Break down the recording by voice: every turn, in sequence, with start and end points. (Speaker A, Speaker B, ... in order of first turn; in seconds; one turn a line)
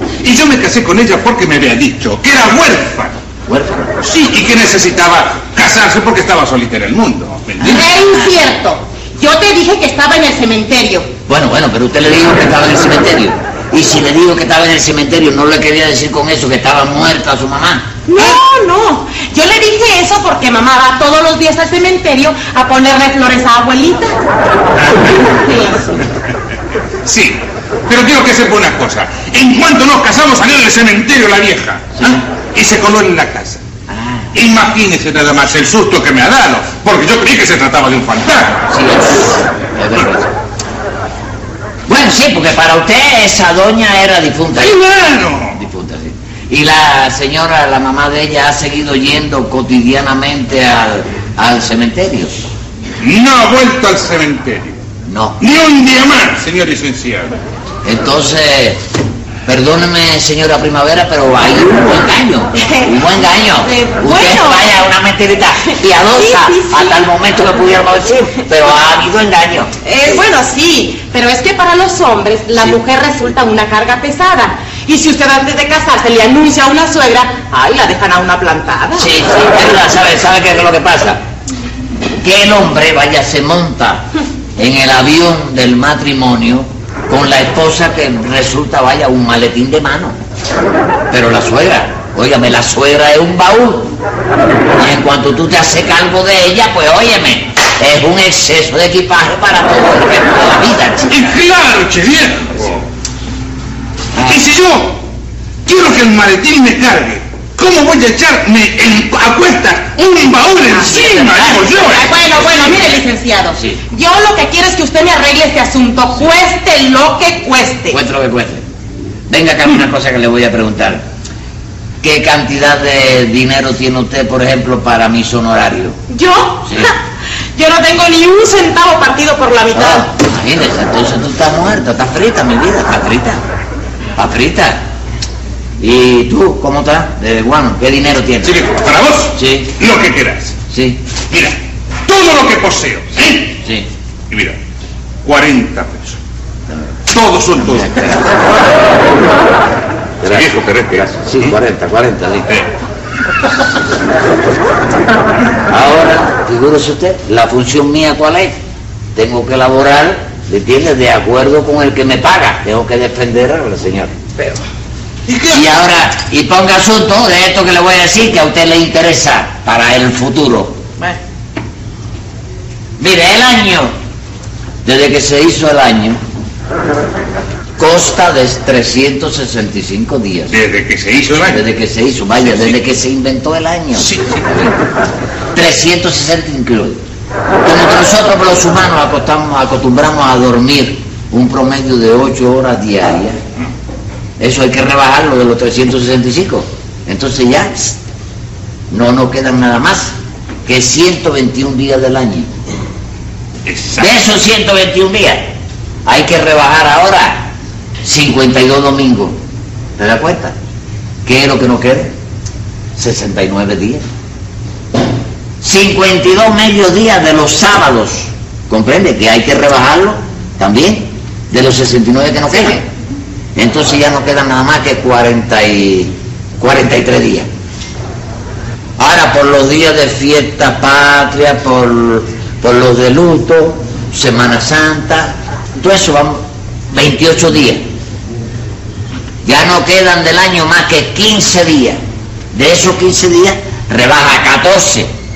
Speaker A: 0.2-3.1
Speaker B: 3.5-4.0
Speaker A: 4.0-7.9
Speaker B: 7.6-8.3
Speaker C: 7.7-11.1
Speaker B: 11.3-17.9
Speaker C: 18.1-24.2
Speaker C: 25.2-26.0
Speaker A: 27.0-33.6
Speaker B: 33.9-34.3
Speaker A: 34.3-38.6
Speaker B: 38.7-40.3
Speaker B: 41.9-44.8
Speaker A: 44.6-45.6
Speaker B: 45.5-52.5
Speaker A: 53.0-54.7
Speaker B: 55.1-55.4
Speaker A: 55.4-57.3
Speaker B: 57.8-58.8
Speaker B: 59.4-69.7
Speaker C: 62.6-62.9
Speaker C: 63.6-64.7
Speaker C: 66.1-66.9
Speaker C: 69.8-79.1
Speaker B: 78.9-81.2
Speaker B: 82.2-84.0
Speaker B: 84.6-90.2
Speaker B: 91.1-94.0
Speaker B: 94.7-101.3
Speaker A: 101.1-102.8
Speaker A: 104.2-105.0
Speaker A: 105.6-112.2
Speaker B: 110.7-112.1
Speaker C: 111.8-118.0
Speaker B: 117.9-118.6
Speaker B: 119.3-121.0
Speaker B: 122.0-126.0
Speaker C: 126.1-127.0
Speaker C: 127.5-130.1
Speaker B: 129.7-133.4
Speaker B: 134.2-134.8
Speaker B: 135.8-138.6
Speaker A: 138.4-140.6
Speaker B: 139.3-139.7
Speaker B: 140.7-141.0
Speaker A: 141.3-143.6
Speaker B: 143.6-143.9
Speaker A: 144.3-144.6
Speaker A: 145.2-146.2
Speaker A: 147.1-148.1
Speaker B: 147.8-148.4
Speaker B: 150.2-152.5
Speaker A: 150.2-151.5
Speaker B: 155.7-158.6
Speaker B: 159.1-164.6
Speaker A: 165.3-165.6
Speaker B: 165.5-170.9
Speaker B: 173.0-173.9
Speaker B: 174.8-176.2
Speaker B: 177.8-180.5
Speaker A: 180.5-181.6
Speaker B: 181.5-184.7
Speaker A: 182.4-182.7
Speaker A: 184.0-184.4
Speaker B: 185.5-187.0
Speaker B: 187.6-193.4
Speaker B: 194.4-198.0
Speaker B: 198.9-200.1
Speaker B: 200.7-202.5
Speaker A: 203.7-204.1
Speaker B: 204.0-205.5
Speaker B: 206.0-207.5
Speaker B: 208.0-209.4
Speaker B: 210.0-210.5
Speaker B: 211.2-212.1
Speaker B: 212.9-214.0
Speaker B: 215.6-222.9
Speaker B: 223.6-227.5
Speaker B: 229.0-237.8
Speaker B: 239.4-242.0
Speaker B: 242.5-245.1